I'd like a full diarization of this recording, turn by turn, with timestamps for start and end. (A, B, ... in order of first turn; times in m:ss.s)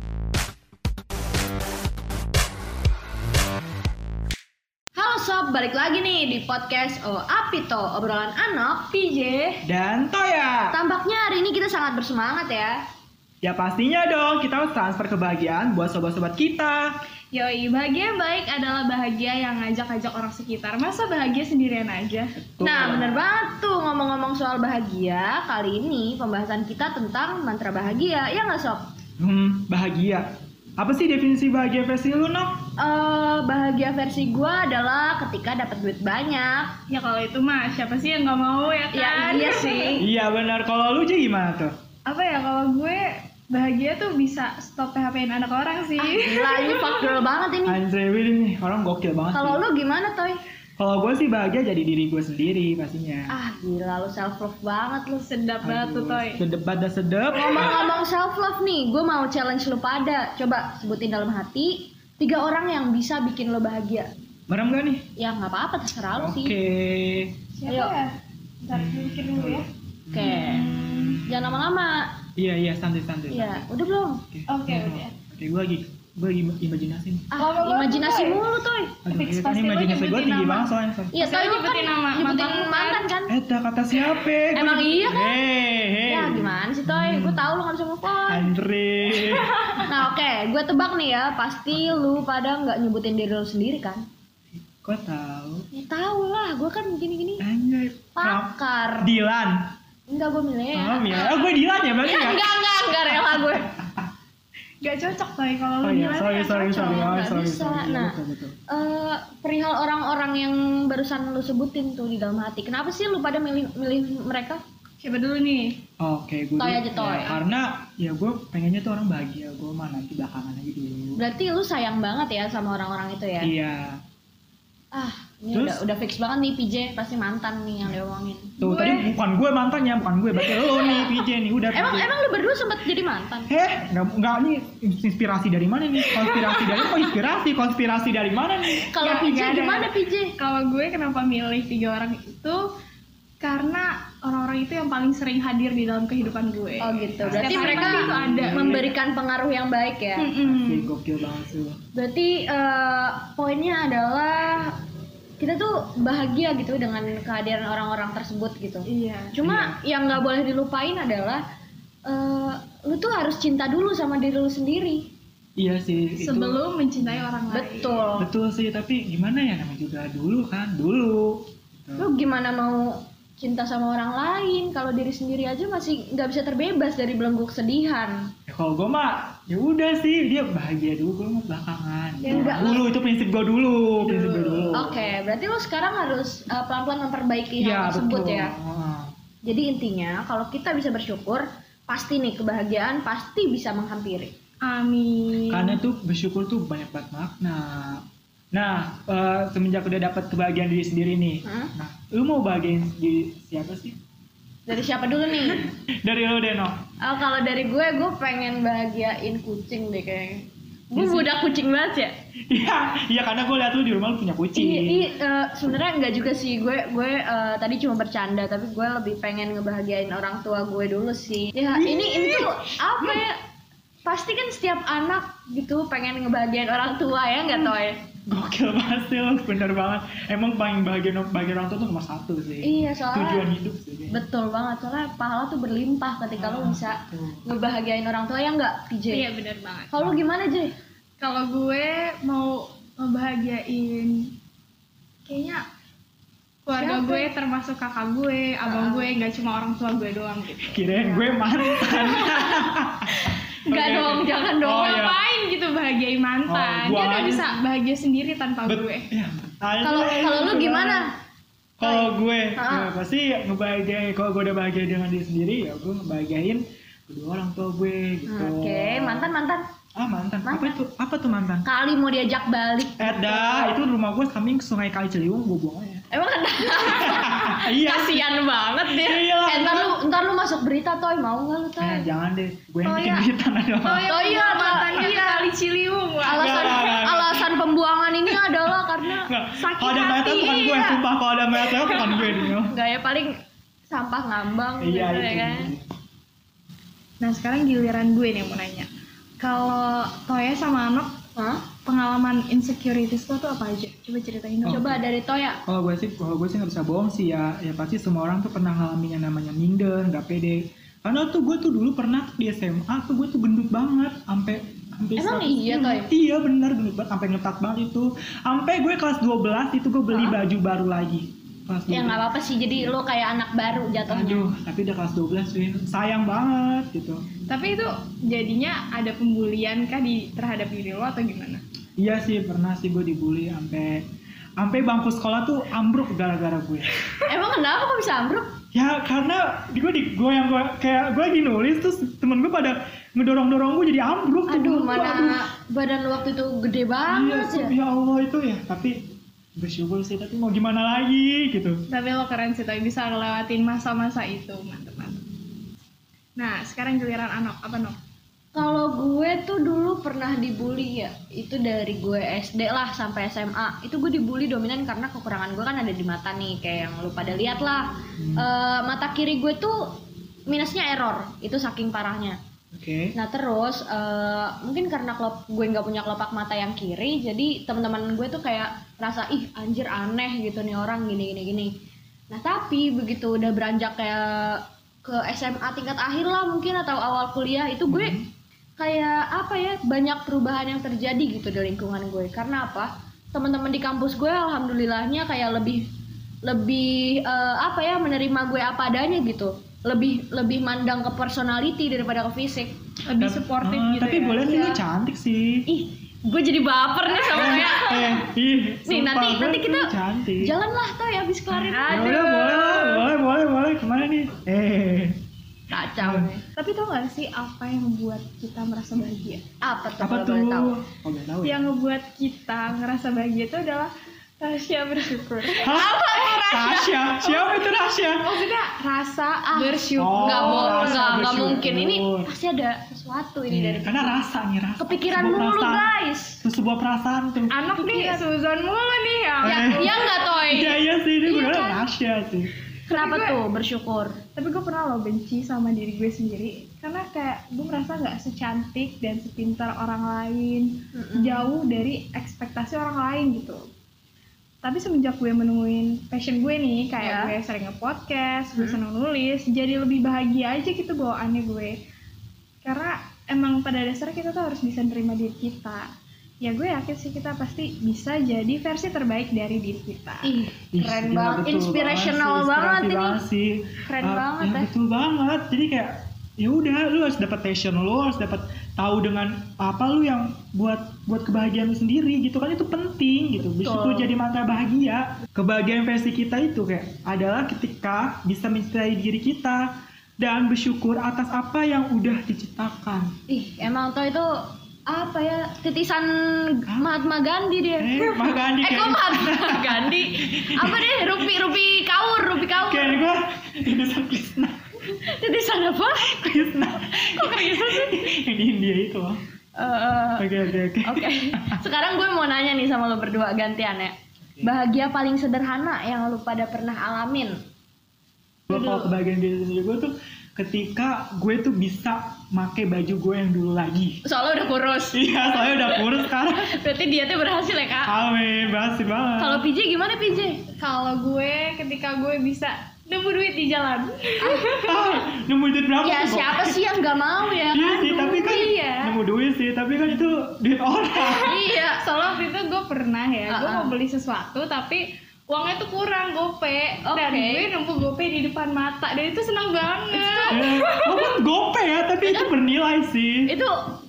0:05.0-0:08.9 A
0:08.9-0:09.6 B
0:09.6-0:10.8 C
0:10.7-0:12.8 A
0:13.4-0:16.9 C
0:17.3-0:22.3 B
0:22.4-0:23.2 C
0:22.6-0:28.8 A
0:29.2-0:32.7 C
0:32.8-0:36.8 A
0:36.9-0:40.0 B
0:38.9-0:40.1 A
0:40.0-0:41.7 C
0:42.0-0:47.3 B
0:46.0-0:47.8 A
0:47.6-0:49.6 C
0:49.3-0:50.4 A
0:50.8-0:53.3 C
0:53.3-0:55.3 A
0:55.2-0:56.4 B
0:55.6-0:57.9 C
0:57.3-1:04.1 A
1:04.5-1:05.0 C
1:05.2-1:06.5 A
1:06.2-1:07.4 C
1:07.6-1:11.2 B
1:07.7-1:07.9 A
1:08.7-1:11.6 C
1:10.1-1:12.1 A
1:12.4-1:13.6 C
1:13.3-1:14.2 A
1:14.3-1:17.3 C
1:14.5-1:15.1 B
1:17.3-1:19.0 A
1:17.4-1:18.4 B
1:19.0-1:21.2 C
1:19.0-1:23.1 B
1:21.1-1:23.3 A
1:23.3-1:27.5 C
1:24.5-1:25.5 A
1:26.0-1:28.5 A
1:28.3-1:29.6 C
1:29.7-1:34.0 A
1:31.7-1:32.2 C
1:34.6-1:35.6 C
1:35.7-1:37.4 A
1:37.4-1:39.7 C
1:38.2-1:39.2 A
1:40.1-1:41.4 A
1:40.7-1:43.4 C
1:42.0-1:43.8 A
1:44.8-1:47.2 B
1:45.8-1:48.5 C
1:46.7-1:48.2 A
1:48.7-1:54.6 A
1:55.0-1:55.8 B
1:56.0-2:01.2 C
1:56.6-1:57.4 A
2:01.2-2:03.5 A
2:03.4-2:04.0 C
2:04.9-2:09.1 A
2:05.5-2:05.8 C
2:08.6-2:12.1 C
2:10.5-2:11.2 A
2:11.7-2:13.5 A
2:13.5-2:18.9 C
2:16.0-2:17.0 B
2:18.9-2:20.3 A
2:19.0-2:22.6 B
2:23.4-2:28.7 B
2:26.8-2:30.3 A
2:27.2-2:28.9 C
2:30.2-2:30.9 B
2:30.4-2:31.8 C
2:31.9-2:34.7 A
2:35.4-2:41.4 A
2:38.9-2:39.4 B
2:39.4-2:39.8 C
2:42.0-2:45.1 A
2:45.6-2:47.2 C
2:46.2-2:48.2 B
2:47.5-2:48.3 A
2:48.2-2:52.1 C
2:52.0-2:58.2 A
2:58.5-3:05.1 C
3:02.2-3:02.8 B
3:02.2-3:02.8 A
3:04.0-3:04.7 B
3:04.7-3:08.5 A
3:07.6-3:09.1 C
3:09.4-3:14.3 A
3:14.6-3:15.8 B
3:15.5-3:24.0 C
3:21.4-3:21.7 A
3:24.6-3:25.7 A
3:26.0-3:26.8 C
3:27.0-3:32.1 A
3:30.9-3:31.3 C
3:32.5-3:35.1 C
3:34.6-3:43.4 A
3:41.7-3:43.2 C
3:44.0-3:48.0 A
3:48.3-3:54.2 C
3:52.6-3:53.5 A
3:54.1-3:59.2 A
3:56.4-3:57.5 C
3:59.1-4:00.0 B
3:59.9-4:00.7 A
4:01.2-4:04.3 B
4:05.2-4:05.6 B
4:06.6-4:12.6 B
4:06.7-4:07.3 A
4:08.6-4:09.1 A
4:10.7-4:15.2 C
4:13.6-4:15.1 A
4:14.6-4:19.1 B
4:16.5-4:17.5 C
4:18.6-4:21.1 C
4:19.8-4:21.1 A
4:21.8-4:29.3 C
4:21.8-4:22.9 A
4:28.2-4:29.6 A
4:30.0-4:31.7 C
4:30.4-4:30.8 A
4:31.6-4:33.8 A
4:33.0-4:36.0 C
4:36.1-4:42.1 A
4:36.8-4:38.3 C
4:38.9-4:40.0 C
4:41.8-4:44.1 C
4:42.8-4:43.3 B
4:43.8-4:47.0 B
4:44.0-4:45.5 A
4:46.2-4:47.4 C
4:46.2-4:49.3 A
4:49.2-4:52.7 C
4:49.6-4:51.0 B
4:51.7-4:52.4 B
4:52.6-4:53.4 A
4:53.9-4:55.7 A
4:54.8-4:55.8 C
4:57.2-4:58.9 B
4:59.4-5:01.1 B
5:01.4-5:01.6 A
5:01.8-5:04.8 B
5:04.6-5:05.0 C
5:04.6-5:05.6 A
5:05.6-5:23.0 C
5:15.2-5:16.1 A
5:21.9-5:24.5 A
5:24.1-5:27.2 C
5:27.5-5:31.6 B
5:32.0-5:34.0 C
5:34.6-5:36.9 C
5:37.2-5:38.5 A
5:38.7-5:45.4 C
5:44.5-5:47.7 A
5:47.1-5:51.8 C
5:51.9-5:55.2 B
5:56.4-5:58.0 B
5:58.5-6:09.8 A
6:08.2-6:08.5 C
6:10.5-6:12.4 A
6:12.7-6:13.1 C
6:13.1-6:21.7 A
6:22.3-6:28.2 A
6:27.9-6:28.2 C
6:28.8-6:35.8 A
6:36.4-6:42.7 A
6:43.1-6:44.6 B
6:43.2-6:45.7 C
6:44.4-6:44.8 A
6:45.7-6:48.3 A
6:47.3-6:50.5 C
6:48.8-6:53.1 A
6:51.6-6:52.2 B
6:51.8-6:55.2 C
6:55.7-6:56.4 A
6:56.0-6:56.3 C
6:56.5-6:59.4 B
6:59.6-7:00.8 A
7:00.0-7:01.7 C
7:01.4-7:06.6 B
7:05.6-7:06.9 A
7:05.6-7:08.3 C
7:07.1-7:11.6 B
7:09.5-7:14.2 A
7:10.0-7:12.3 C
7:13.5-7:17.6 C
7:14.8-7:16.4 A
7:17.5-7:19.9 B
7:17.7-7:18.2 A
7:19.4-7:22.5 C
7:19.4-7:21.9 A
7:22.9-7:23.4 B
7:22.9-7:24.2 A
7:24.4-7:33.6 B
7:30.9-7:31.4 A
7:34.6-7:41.8 B
7:37.0-7:37.3 A
7:42.6-7:45.9 B
7:46.4-7:50.4 B
7:50.2-7:53.2 A
7:50.7-8:13.1 C
7:53.8-7:54.7 A
8:03.6-8:04.1 A
8:13.3-8:23.0 A
8:16.7-8:16.9 C
8:17.8-8:21.2 C
8:22.6-8:24.7 C
8:24.8-8:28.1 A
8:26.0-8:29.2 C
8:29.6-8:30.3 A
8:30.2-8:31.6 C
8:30.8-8:37.4 A
8:38.5-8:44.0 C
8:38.5-8:38.9 B
8:44.0-8:48.0 A
8:44.9-8:46.6 C
8:47.8-8:49.5 C
8:49.2-8:50.4 A
8:50.6-8:54.9 B
8:54.2-8:54.4 A
8:54.6-8:56.6 C
8:55.8-8:58.1 A
8:57.5-9:01.4 C
8:57.7-8:59.0 B
9:01.0-9:11.1 B
9:01.2-9:01.8 A
9:03.3-9:03.7 A
9:06.8-9:07.5 A
9:09.9-9:10.4 A
9:10.3-9:13.3 C
9:13.2-9:13.6 A